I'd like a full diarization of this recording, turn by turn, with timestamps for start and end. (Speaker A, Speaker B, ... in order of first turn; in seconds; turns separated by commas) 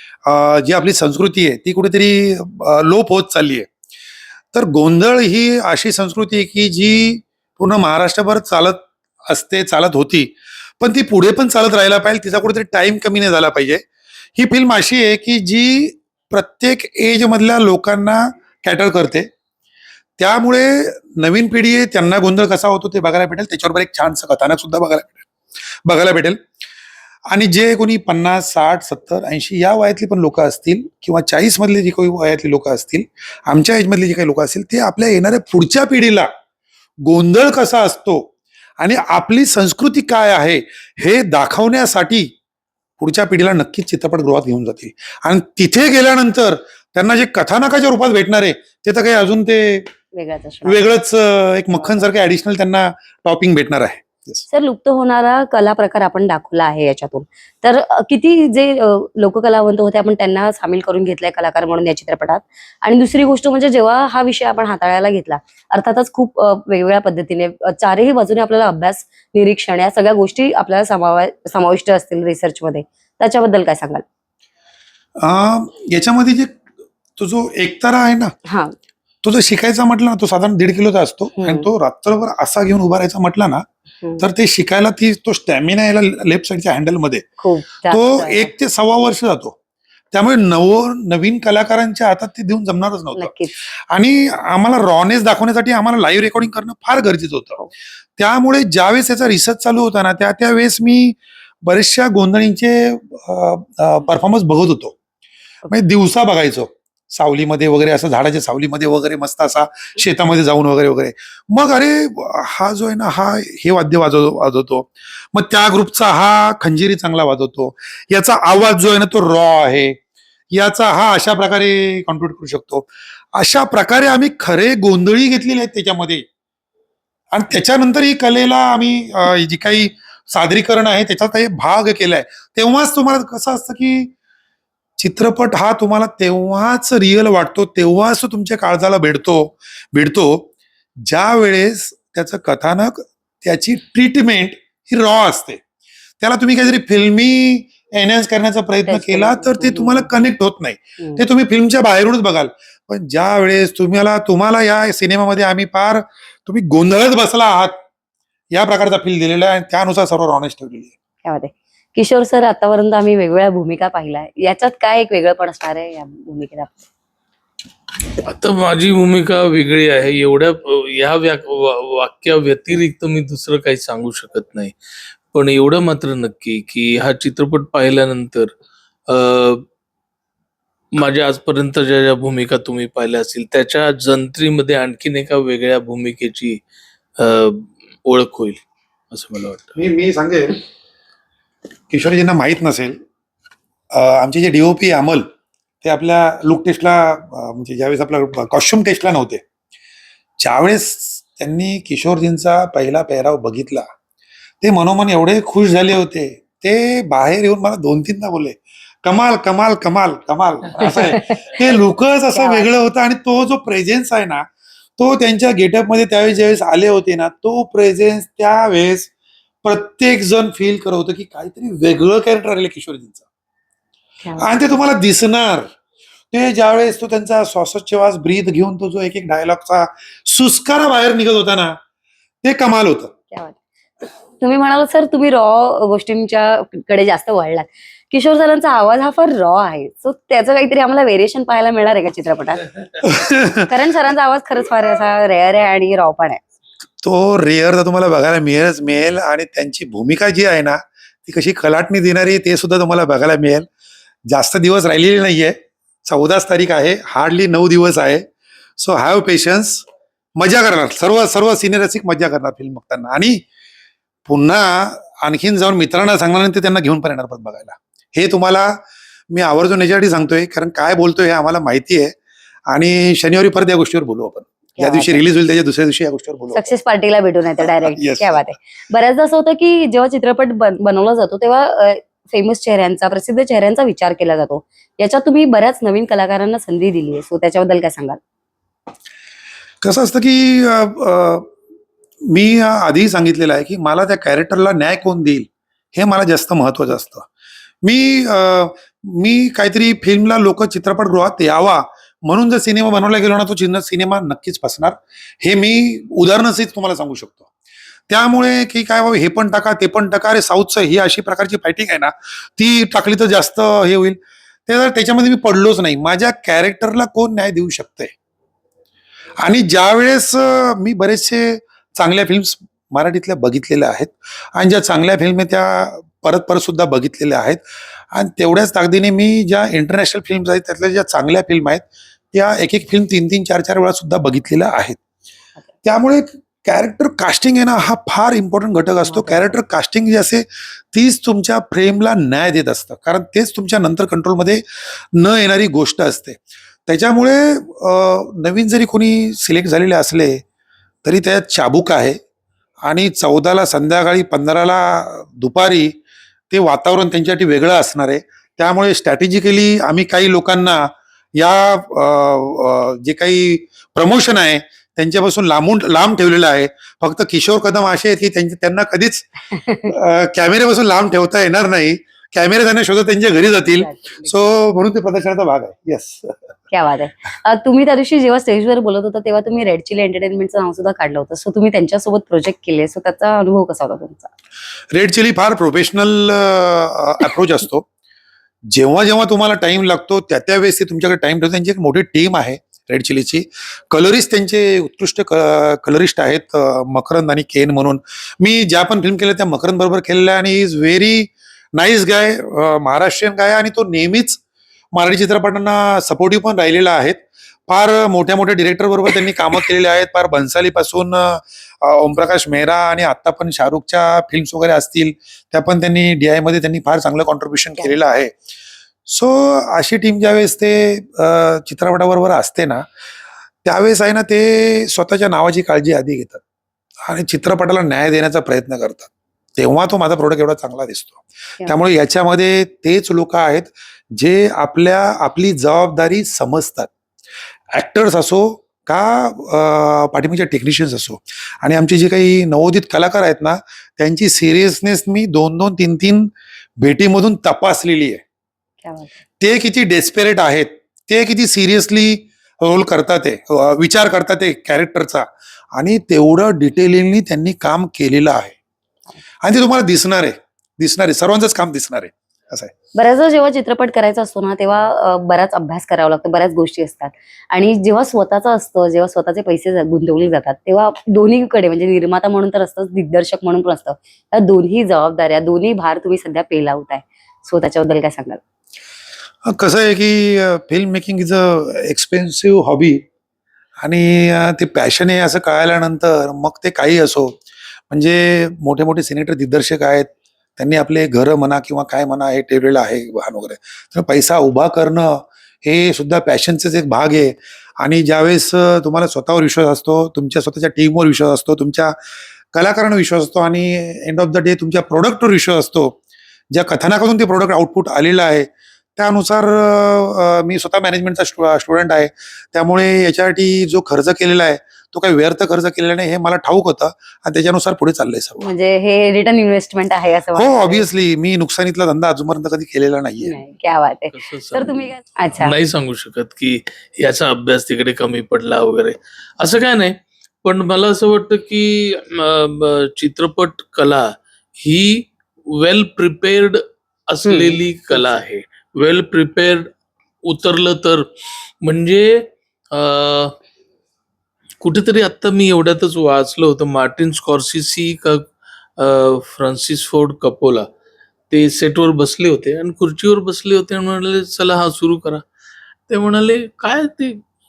Speaker A: 0.3-3.7, Speaker A: 4.5-13.8, Speaker A: 14.4-19.3, Speaker A: 20.2-25.3, Speaker A: 25.9-26.4, Speaker A: 27.3-36.3, Speaker A: 37.0-42.3, Speaker A: 43.0-49.9, Speaker B: 50.1-50.9, Speaker A: 50.6-54.4, Speaker B: 51.7-52.1, Speaker B: 54.5-74.0, Speaker A: 75.2-76.6, Speaker A: 77.2-78.3, Speaker B: 78.5-78.7, Speaker A: 79.2-83.6, Speaker B: 81.4-81.7, Speaker B: 84.0-84.3, Speaker A: 84.2-87.3, Speaker B: 87.4-88.5, Speaker A: 87.9-89.6, Speaker A: 90.1-97.6, Speaker B: 93.2-93.5, Speaker A: 98.2-105.0, Speaker A: 105.7-120.0, Speaker A: 120.5-126.3, Speaker A: 127.3-134.1, Speaker A: 135.0-140.5, Speaker A: 141.0-145.6, Speaker A: 146.2-157.8, Speaker B: 148.9-150.1, Speaker A: 158.5-160.9, Speaker B: 161.2-166.9, Speaker C: 168.2-174.7, Speaker C: 175.3-178.5, Speaker C: 179.1-179.6, Speaker C: 180.9-186.6, Speaker C: 187.2-189.8, Speaker A: 189.8-190.6, Speaker A: 191.9-193.0, Speaker A: 193.9-195.3, Speaker A: 195.8-199.4, Speaker A: 200.4-203.9, Speaker A: 204.6-214.4, Speaker B: 210.9-211.4, Speaker B: 212.3-212.7, Speaker A: 215.0-219.1, Speaker A: 219.6-223.2, Speaker B: 224.2-224.8, Speaker A: 224.4-225.7, Speaker A: 226.3-231.8, Speaker A: 232.4-233.1, Speaker B: 233.3-242.8, Speaker A: 243.0-243.6, Speaker B: 243.6-246.4, Speaker A: 247.0-253.7, Speaker A: 254.3-255.6, Speaker A: 256.1-258.2, Speaker A: 258.8-259.9, Speaker A: 260.4-263.4, Speaker A: 264.3-268.7, Speaker A: 269.3-272.1, Speaker A: 272.7-276.7, Speaker B: 274.8-275.2, Speaker B: 276.6-288.2, Speaker A: 277.6-278.5, Speaker A: 289.8-291.5, Speaker A: 292.3-297.3, Speaker A: 297.8-307.5, Speaker A: 308.1-318.1, Speaker A: 319.4-335.0, Speaker A: 335.9-350.4, Speaker B: 339.1-339.6, Speaker A: 351.0-352.2, Speaker A: 352.9-356.0, Speaker A: 356.5-369.3, Speaker B: 369.5-369.9, Speaker A: 369.9-376.4, Speaker B: 373.8-374.5, Speaker B: 376.7-384.3, Speaker A: 384.9-387.9, Speaker A: 388.7-404.4, Speaker A: 404.9-418.4, Speaker A: 419.1-422.9, Speaker A: 423.6-426.4, Speaker A: 427.1-436.9, Speaker A: 437.7-448.2, Speaker B: 448.8-449.1, Speaker A: 449.4-458.6, Speaker A: 459.4-462.7, Speaker B: 462.9-478.4, Speaker A: 479.5-483.0, Speaker A: 483.8-487.4, Speaker A: 487.9-502.0, Speaker A: 502.5-506.0, Speaker A: 506.5-518.4, Speaker B: 518.4-520.9, Speaker A: 520.3-523.4, Speaker B: 523.2-525.6, Speaker C: 524.1-539.7, Speaker B: 537.2-537.6, Speaker C: 540.2-543.4, Speaker C: 544.6-550.7, Speaker C: 551.3-555.3, Speaker C: 555.9-557.2